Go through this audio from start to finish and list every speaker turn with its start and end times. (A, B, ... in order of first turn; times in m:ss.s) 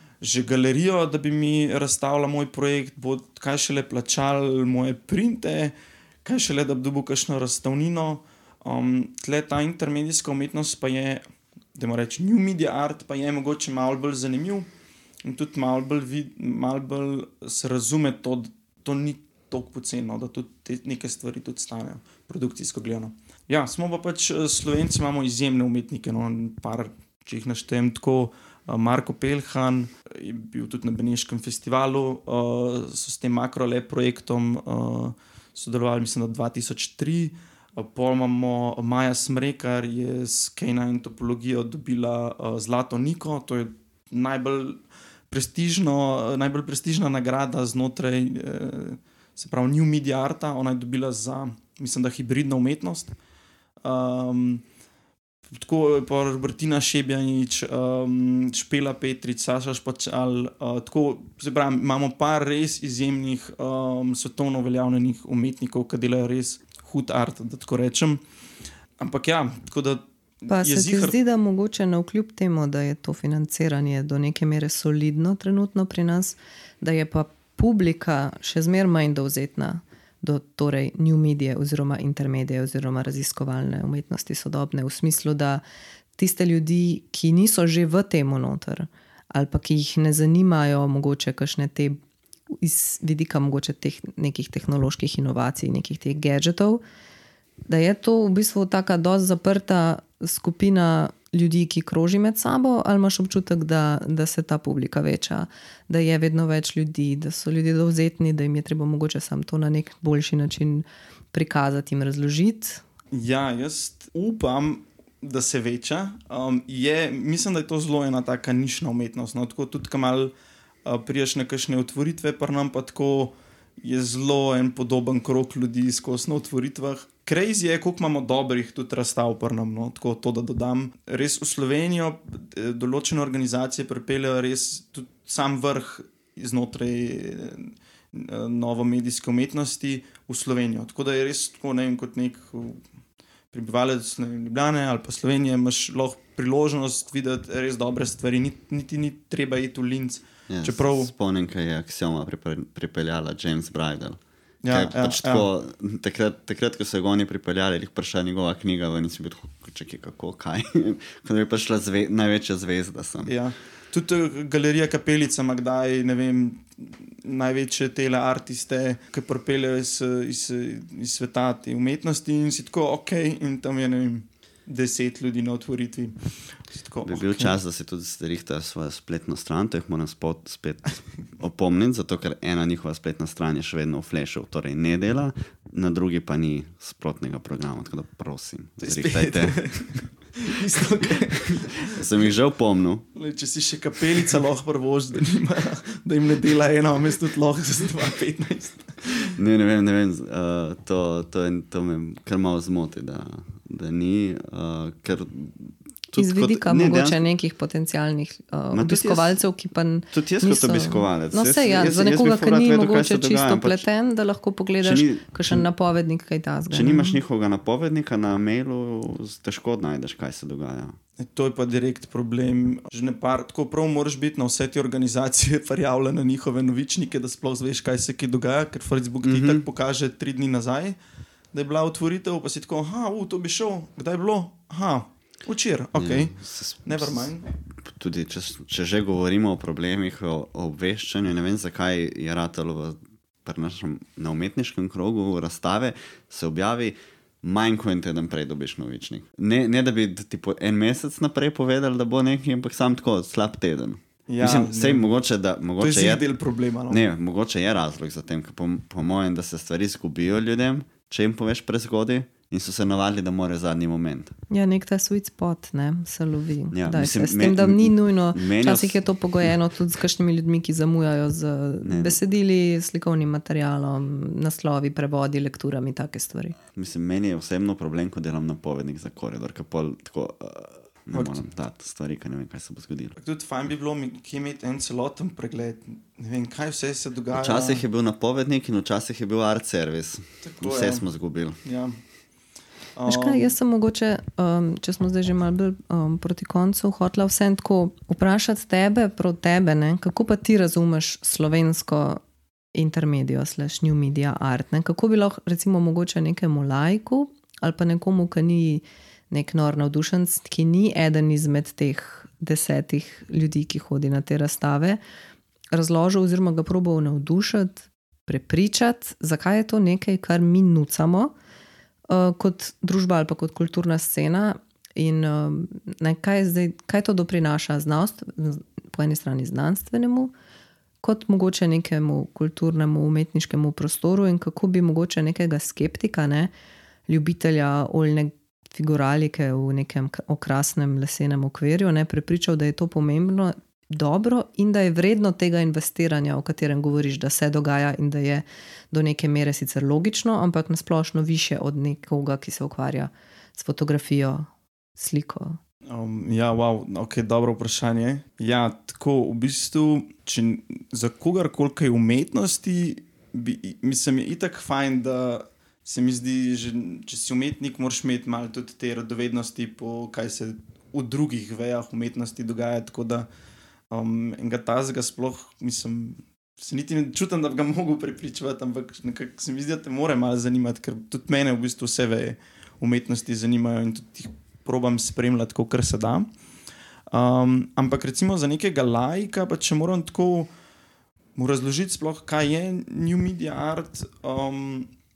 0:00.2-0:11.2 A
0:11.8-0:14.7 A
0:15.2-0:53.2 A
0:53.8-0:54.6 A
0:55.5-1:08.2 A
1:09.0-1:11.2 A
1:10.5-1:25.6 B
1:26.2-1:32.0 B
1:32.5-1:36.8 B
1:37.7-1:52.8 B
1:53.1-2:00.3 A
2:00.8-2:22.8 A
2:23.5-2:31.1 A
2:30.5-2:43.3 C
2:34.6-2:35.5 A
2:43.3-2:57.6 A
2:57.0-3:10.0 C
3:08.8-3:12.3 A
3:11.8-3:13.0 C
3:13.1-3:19.4 A
3:19.3-3:27.2 C
3:26.2-3:37.2 B
3:28.7-3:29.4 C
3:30.1-3:33.9 C
3:34.8-3:35.7 C
3:36.7-3:41.0 C
3:41.2-3:51.0 A
3:49.2-3:49.6 C
3:51.5-3:57.5 A
3:56.0-3:57.3 C
3:57.8-4:16.2 C
4:14.3-4:15.1 A
4:15.8-4:17.0 A
4:16.9-4:24.4 C
4:24.5-4:36.6 B
4:26.7-4:29.5 C
4:31.8-4:32.2 C
4:36.7-4:43.2 C
4:41.1-4:41.4 A
4:43.2-4:47.8 A
4:47.3-4:51.6 C
4:50.4-4:51.1 A
4:51.6-4:52.0 A
4:53.0-4:53.5 A
4:53.1-5:02.2 B
5:02.7-5:15.0 B
5:15.7-5:21.3 B
5:22.1-5:30.3 B
5:31.0-5:36.5 B
5:37.1-5:55.6 B
5:55.9-6:13.3 A
6:13.9-6:26.3 A
6:27.1-6:30.5 A
6:31.4-6:34.9 A